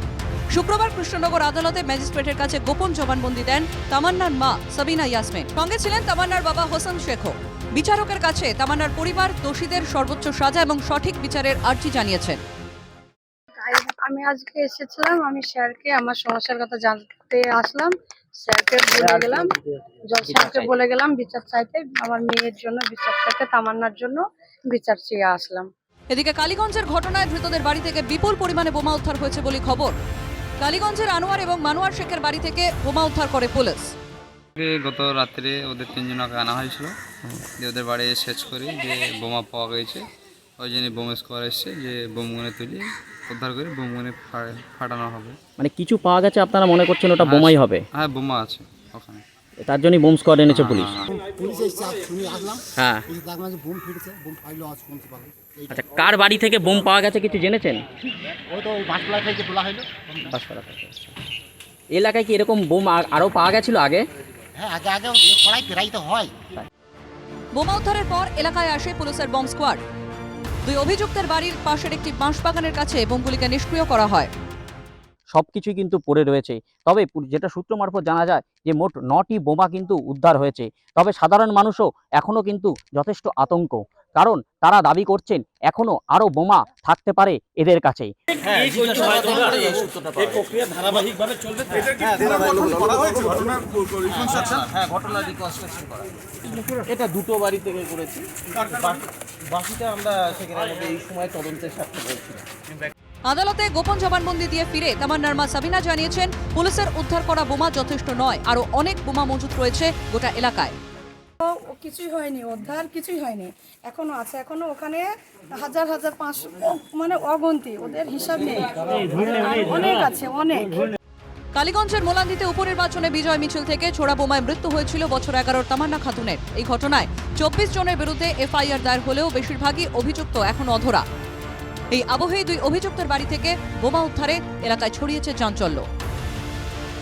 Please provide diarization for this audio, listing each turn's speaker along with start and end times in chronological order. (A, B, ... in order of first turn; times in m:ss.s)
0:00.5-0:12.4 A
0:13.6-0:19.5 B
0:20.1-0:25.7 B
0:20.3-0:20.7 C
0:26.1-0:29.9 A
0:30.6-0:33.9 A
0:34.6-0:36.9 D
0:37.6-0:40.0 D
0:40.6-0:45.4 D
0:45.6-0:47.8 C
0:47.2-0:49.2 D
0:49.6-0:51.0 C
0:50.5-0:51.1 D
0:51.1-0:55.8 E
0:52.8-0:53.0 C
0:55.7-0:57.8 C
0:58.5-1:00.3 E
1:00.3-1:01.1 C
1:01.9-1:04.0 C
1:04.6-1:06.3 E
1:07.5-1:09.8 A
1:10.6-1:14.3 A
1:15.3-1:28.1 C
1:28.4-1:42.4 F
1:43.2-1:50.8 A
1:51.4-2:00.9 B
2:01.5-2:11.0 A
2:11.9-2:15.8 A